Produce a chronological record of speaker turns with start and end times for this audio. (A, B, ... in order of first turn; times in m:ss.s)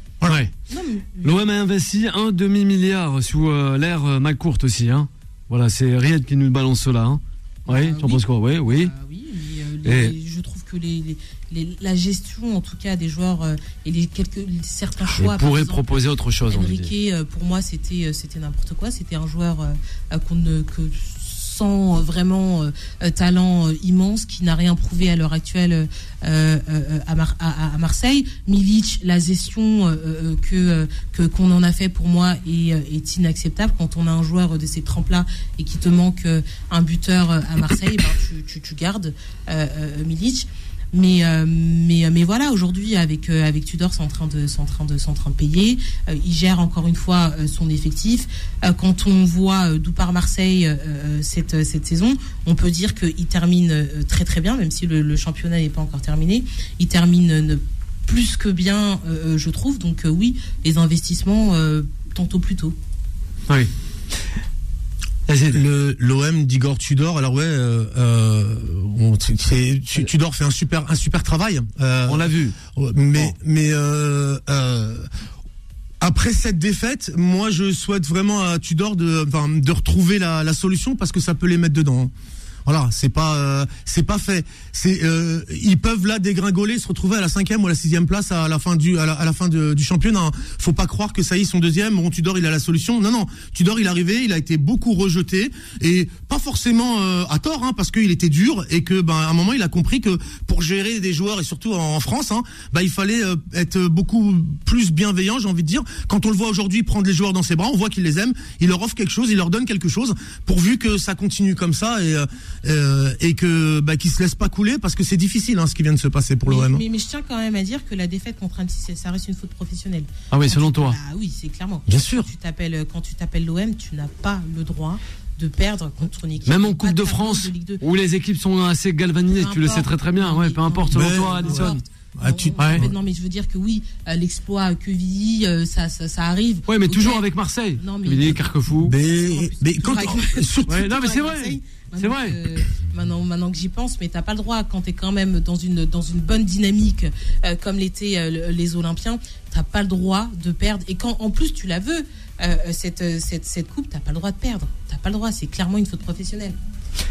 0:00.2-0:00.5 A
0:00.7-0:01.4 B
0:01.2-0:08.9 A
0:07.7-1:02.8 B
0:09.8-0:10.2 A
0:15.2-0:16.9 A
1:05.3-1:05.6 A
1:05.5-1:15.1 C
1:12.1-1:12.6 A
1:16.0-1:22.1 C
1:22.7-1:56.8 C
1:56.5-2:07.8 B
2:00.3-2:01.0 A
2:01.9-2:02.3 C
2:06.4-2:11.8 A
2:09.3-2:17.3 B
2:10.9-2:13.0 C
2:12.6-2:12.9 A
2:16.7-2:19.0 A
2:17.8-2:36.6 B
2:18.8-2:20.9 C
2:20.7-2:22.4 A